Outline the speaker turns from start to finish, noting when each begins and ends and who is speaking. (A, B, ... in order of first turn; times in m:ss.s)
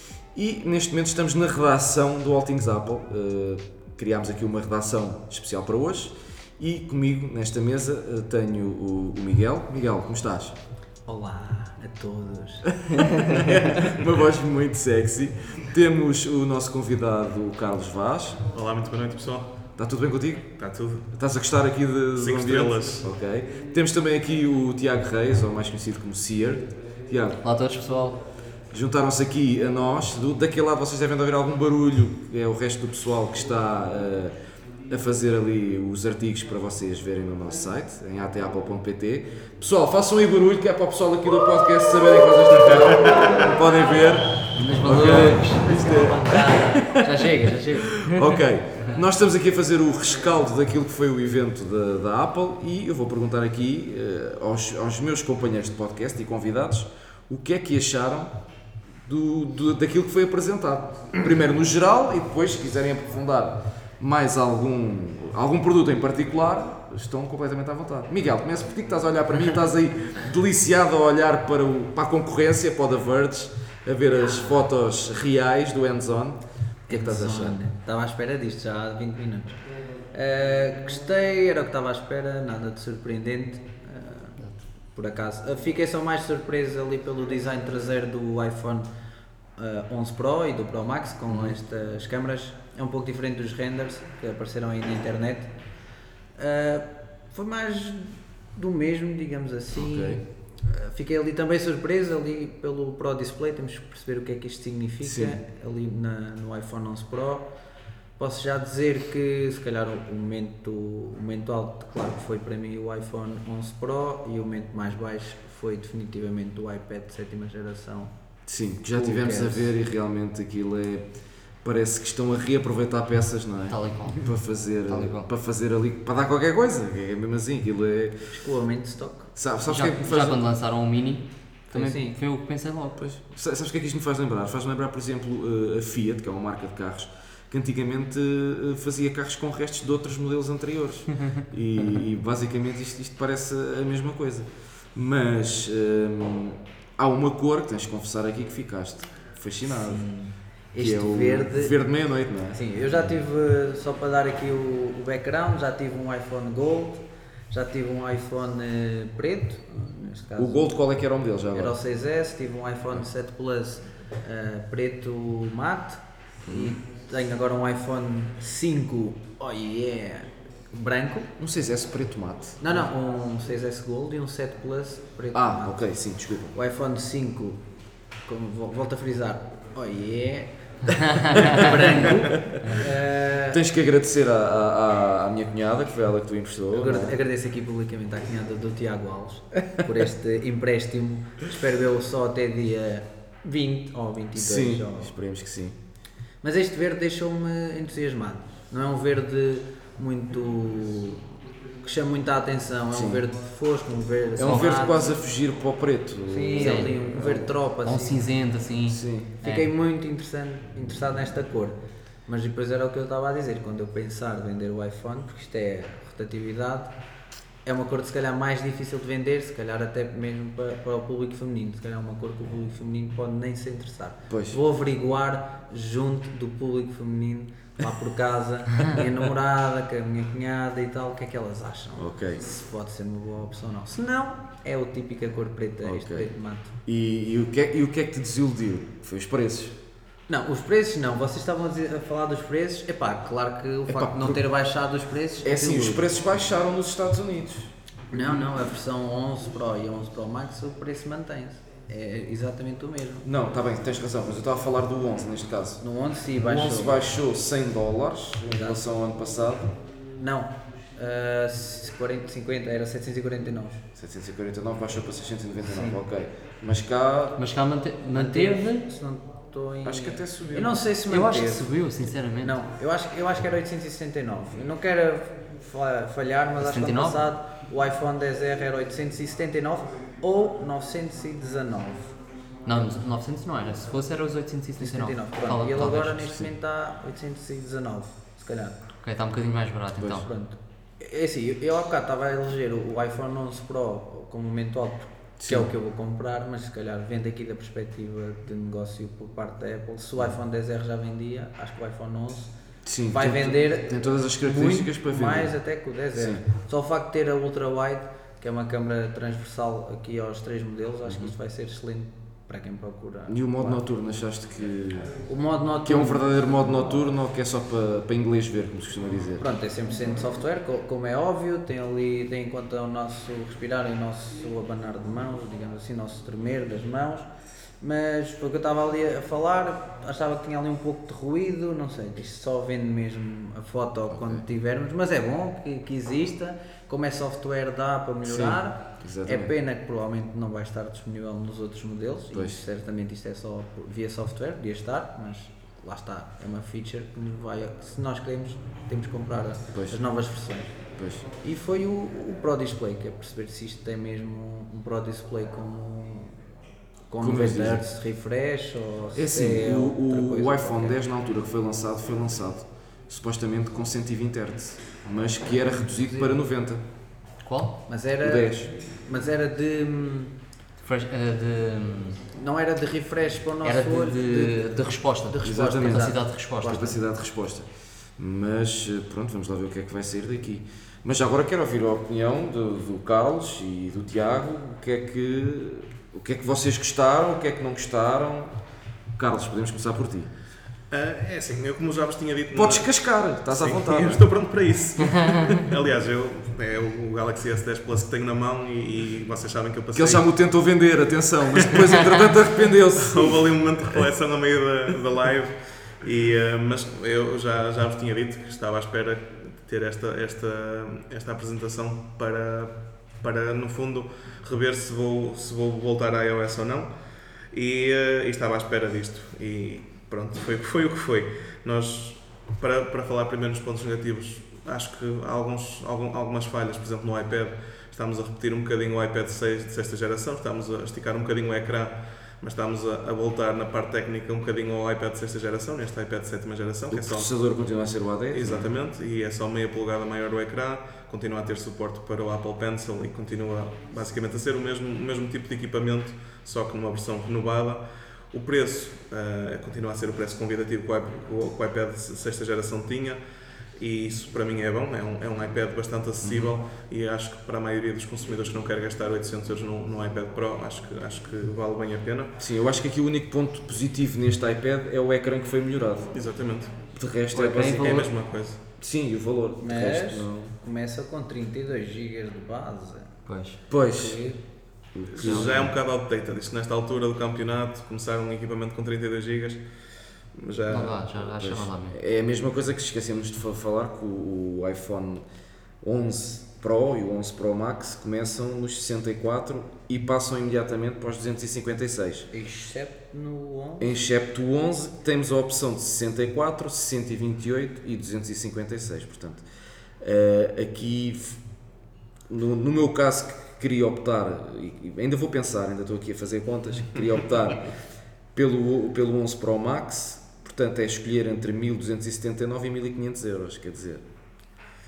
0:00.3-0:10.6 A
0:11.1-0:12.7 B
0:12.9-0:18.4 A
0:18.5-0:19.5 C
0:19.8-0:20.5 A
0:20.6-0:21.1 C
0:21.1-0:27.4 A
0:22.2-0:23.1 C
0:27.4-0:28.2 D
0:28.7-0:34.4 A
0:34.9-0:58.3 A
0:42.7-0:43.3 C
0:44.6-0:48.4 D
0:59.0-1:17.6 A
1:14.1-1:14.7 B
1:16.9-1:19.6 B
1:20.1-1:24.4 B
1:24.9-1:28.9 B
1:29.6-1:35.5 B
1:36.4-1:47.5 B
1:39.7-1:40.2 A
1:45.0-1:45.4 A
1:48.2-1:58.1 B
1:58.5-2:01.1 A
1:58.9-1:59.7 B
2:01.6-2:08.3 A
2:03.7-2:04.3 D
2:04.9-2:05.3 D
2:08.3-2:09.3 B
2:09.4-2:10.4 A
2:09.7-2:13.0 D
2:11.7-2:12.2 B
2:13.0-2:30.1 A
2:29.8-2:31.8 B
2:30.8-2:32.6 A
2:32.5-2:40.7 B
2:40.4-2:41.8 A
2:41.5-2:51.3 B
2:46.4-2:46.8 A
2:51.4-2:52.8 A
2:52.6-2:55.8 B
2:55.3-2:56.5 A
2:56.5-2:57.6 B
2:58.3-3:03.6 B
3:01.1-3:02.8 D
3:01.4-3:02.9 A
3:03.5-3:07.2 A
3:06.7-3:15.1 B
3:14.4-3:15.8 A
3:16.4-3:21.3 B
3:21.8-3:25.1 B
3:22.9-3:23.2 A
3:24.4-3:26.9 A
3:24.4-3:24.7 D
3:26.3-3:28.3 B
3:26.6-3:29.7 D
3:28.9-3:29.3 A
3:29.4-3:36.9 B
3:37.6-3:56.7 B
3:44.3-3:44.6 A
3:52.0-3:52.4 A
3:55.8-3:56.3 A
3:56.8-3:59.8 A
4:00.3-4:06.1 B
4:03.9-4:04.4 A
4:05.4-4:07.7 A
4:08.1-4:13.3 B
4:13.2-4:15.8 A
4:15.8-4:17.1 B
4:16.4-4:19.7 A
4:18.5-4:18.9 B
4:20.2-4:23.8 B
4:24.0-4:27.4 A
4:25.7-4:26.0 B
4:27.4-4:28.9 D
4:28.1-4:31.7 B
4:29.8-4:30.8 A
4:31.1-4:32.6 D
4:32.4-4:42.2 B
4:36.6-4:37.2 D
4:42.7-4:46.4 D
4:44.8-4:48.8 B
4:49.0-4:50.3 D
4:50.0-4:50.2 A
4:50.1-5:02.5 B
4:55.4-4:55.7 A
5:02.8-5:05.5 A
5:03.1-5:13.8 B
5:06.1-5:06.4 A
5:11.1-5:11.3 A
5:13.3-5:15.2 A
5:15.3-5:16.3 B
5:15.8-5:19.4 A
5:19.4-5:27.3 B
5:27.8-5:50.7 B
5:34.1-5:34.4 A
5:38.3-5:39.5 A
5:42.3-5:42.6 A
5:49.7-5:50.0 A
5:51.0-5:51.3 A
5:51.3-5:56.4 B
5:57.1-6:01.0 B
5:57.2-5:57.8 A
5:59.1-6:06.8 A
6:05.9-6:06.4 B
6:07.4-6:07.8 D
6:07.9-6:10.3 B
6:08.2-6:08.7 A
6:10.8-6:12.2 D
6:12.3-6:14.6 B
6:13.6-6:17.0 D
6:15.3-6:16.9 B
6:15.4-6:17.7 A
6:18.2-6:28.6 A
6:29.2-6:30.3 A
6:30.9-6:32.9 C
6:32.5-6:34.3 A
6:33.5-6:40.2 C
6:35.0-6:35.6 D
6:39.9-6:44.1 A
6:43.0-6:56.9 C
6:57.5-7:17.3 C
7:16.9-7:18.7 A
7:18.3-7:33.2 C
7:33.8-7:42.3 C
7:36.2-7:36.5 A
7:42.4-7:46.1 A
7:46.1-7:46.7 C
7:46.9-7:48.1 A
7:47.3-7:48.1 D
7:47.8-7:48.6 C
7:48.7-7:50.5 A
7:49.6-7:53.1 B
7:53.3-7:53.6 D
7:53.7-7:54.2 A
7:53.9-7:54.4 B
7:54.9-7:55.7 A
7:55.1-7:59.6 C
7:55.2-7:55.7 D
8:00.4-8:01.0 C
8:00.7-8:02.0 D
8:01.4-8:05.2 A
8:05.8-8:12.3 A
8:12.3-8:13.9 B
8:13.8-8:19.4 A
8:20.0-8:21.4 A
8:22.3-8:27.7 A
8:28.4-8:34.0 A